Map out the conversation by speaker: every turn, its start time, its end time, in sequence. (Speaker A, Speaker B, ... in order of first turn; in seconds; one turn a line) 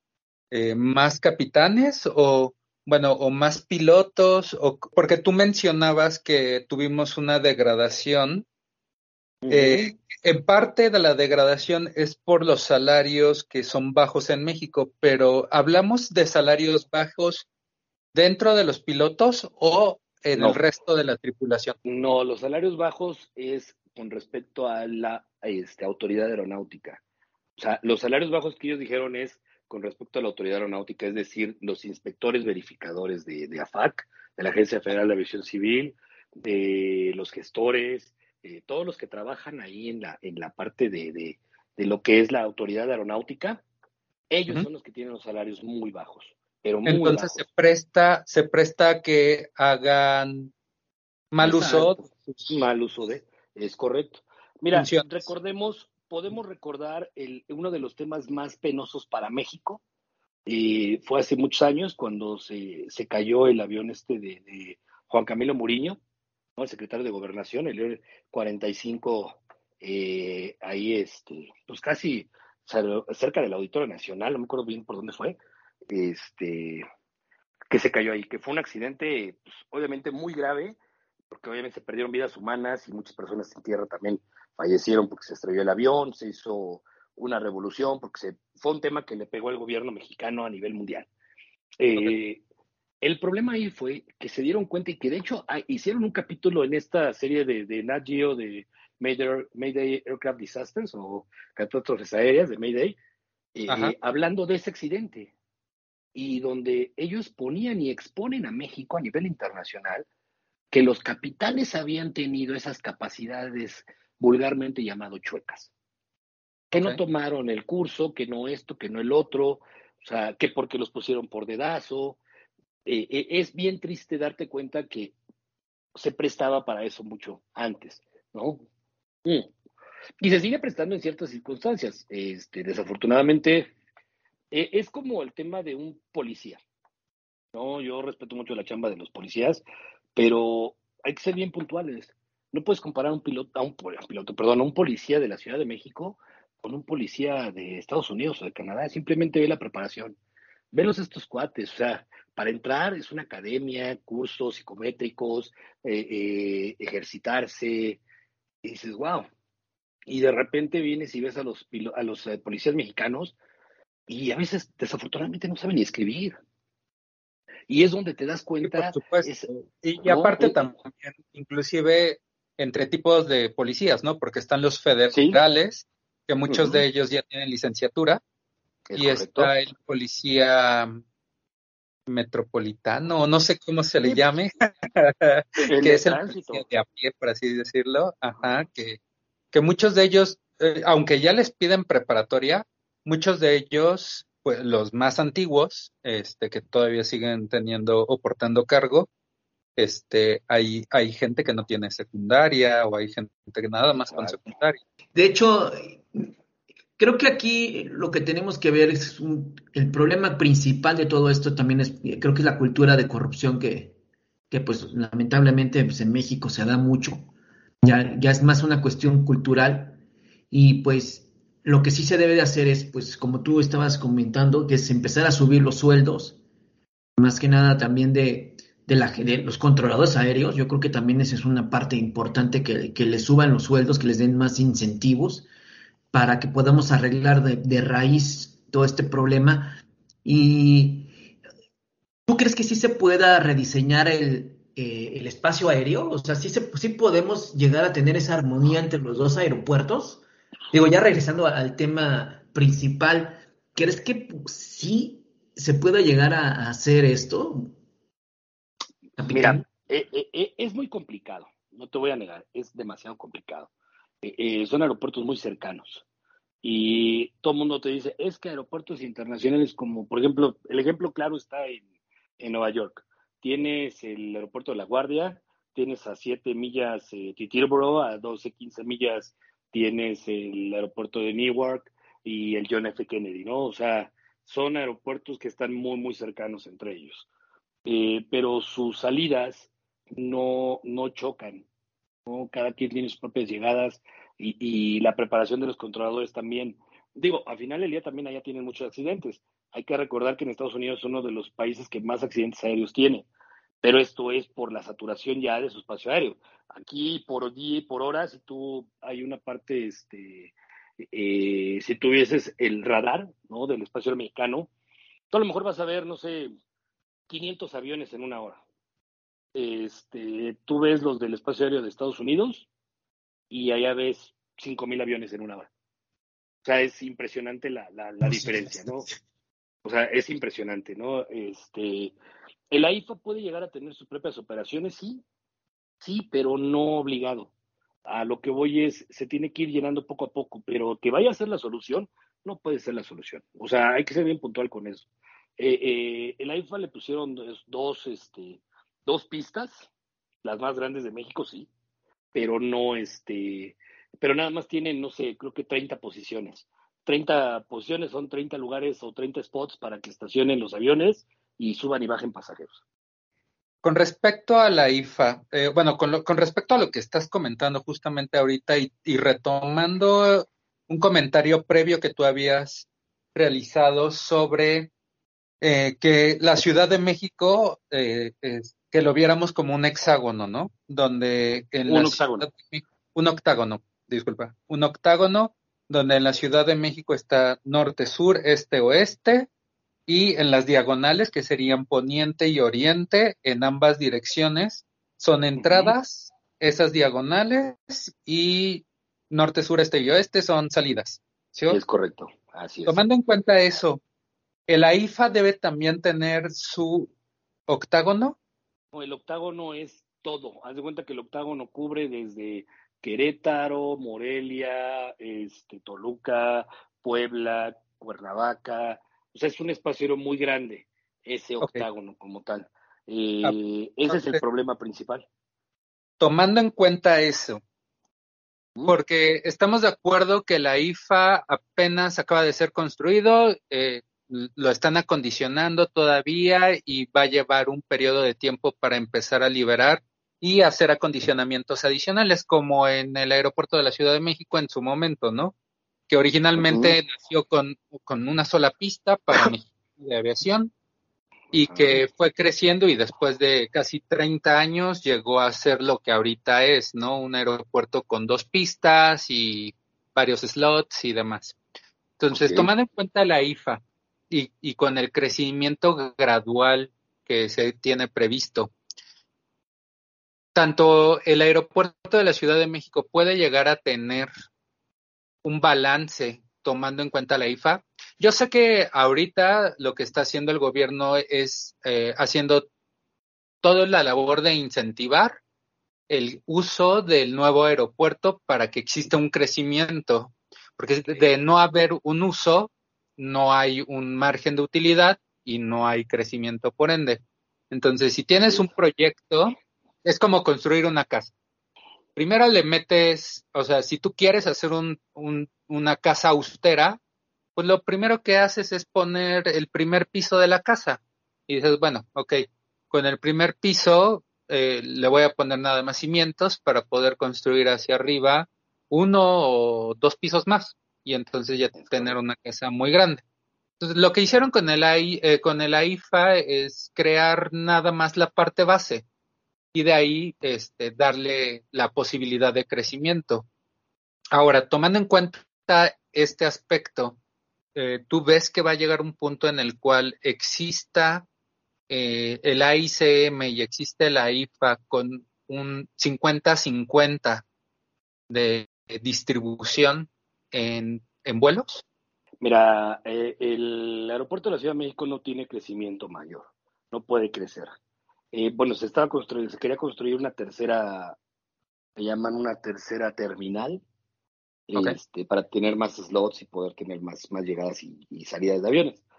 Speaker A: 0.5-8.4
Speaker B: 9.4-9.9
Speaker A: 9.5-17.4
Speaker A: 18.1-21.8
Speaker B: 21.9-27.0
Speaker B: 27.6-43.6
Speaker B: 44.3-47.4
Speaker A: 46.9-50.5
Speaker A: 51.3-52.5
Speaker B: 51.4-59.8
Speaker A: 54.7-55.2
Speaker B: 60.5-66.0
Speaker B: 66.6-75.4
Speaker B: 75.9-76.8
Speaker B: 77.7-80.8
Speaker B: 81.3-91.1
Speaker B: 91.8-92.4
Speaker B: 93.0-103.0
Speaker B: 103.5-105.3
Speaker A: 103.7-103.9
Speaker B: 106.1-110.0
Speaker B: 110.7-115.7
Speaker B: 116.7-122.2
Speaker B: 122.9-125.1
Speaker B: 126.0-128.6
Speaker B: 130.2-133.7
Speaker B: 134.5-136.6
Speaker B: 137.5-139.6
Speaker B: 140.2-150.2
Speaker B: 150.7-158.0
Speaker B: 158.6-159.3
Speaker B: 160.1-163.3
Speaker B: 164.1-166.4
Speaker B: 167.7-169.5
Speaker A: 168.6-178.2
Speaker B: 170.0-170.6
Speaker B: 175.1-175.4
Speaker B: 176.5-176.8
Speaker B: 178.9-179.5
Speaker A: 179.0-181.0
Speaker A: 182.1-189.0
Speaker B: 184.0-184.3
Speaker B: 185.6-186.7
Speaker A: 189.5-199.1
Speaker A: 199.8-204.8
Speaker B: 204.1-204.4
Speaker C: 205.2-206.3
Speaker C: 207.0-213.9
Speaker C: 214.5-217.3
Speaker C: 217.8-220.0
Speaker C: 220.5-226.4
Speaker C: 227.2-235.5
Speaker C: 236.1-241.1
Speaker C: 242.3-257.7
Speaker C: 259.2-259.6
Speaker B: 259.3-263.7
Speaker B: 264.2-266.1
Speaker B: 266.6-271.8
Speaker B: 272.4-287.3
Speaker B: 287.9-291.7
Speaker B: 292.2-303.3
Speaker B: 303.8-314.7
Speaker B: 315.3-316.5
Speaker B: 317.3-318.6
Speaker B: 319.6-322.7
Speaker B: 323.5-325.7
Speaker B: 326.6-329.1
Speaker C: 328.2-329.2
Speaker B: 329.8-332.1
Speaker B: 332.7-335.2
Speaker B: 336.0-337.5
Speaker B: 338.1-345.1
Speaker B: 345.6-349.9
Speaker B: 350.4-351.7
Speaker B: 352.3-362.8
Speaker A: 363.8-374.9
Speaker A: 375.6-389.5
Speaker B: 381.9-382.5
Speaker A: 390.1-401.8
Speaker B: 395.6-395.9
Speaker B: 401.7-403.0
Speaker A: 402.9-404.0
Speaker A: 404.7-407.1
Speaker A: 407.7-408.4
Speaker B: 408.9-425.3
Speaker A: 421.6-421.9
Speaker A: 424.1-424.4
Speaker A: 426.2-427.6
Speaker A: 428.9-445.5
Speaker A: 446.1-450.7
Speaker B: 446.6-447.0
Speaker B: 451.5-452.0
Speaker A: 451.5-461.6
Speaker A: 462.2-468.7
Speaker B: 462.3-462.7
Speaker A: 470.6-474.3
Speaker A: 475.4-482.7
Speaker A: 483.6-485.4
Speaker A: 486.1-501.3
Speaker A: 502.2-507.0
Speaker A: 507.6-523.2
Speaker B: 521.8-522.2
Speaker A: 523.8-529.0
Speaker A: 529.7-533.5
Speaker A: 534.3-537.2
Speaker A: 537.8-541.2
Speaker A: 541.9-547.4
Speaker A: 548.3-551.8
Speaker B: 552.4-557.7
Speaker B: 558.3-561.2
Speaker B: 562.0-563.8
Speaker B: 564.7-569.0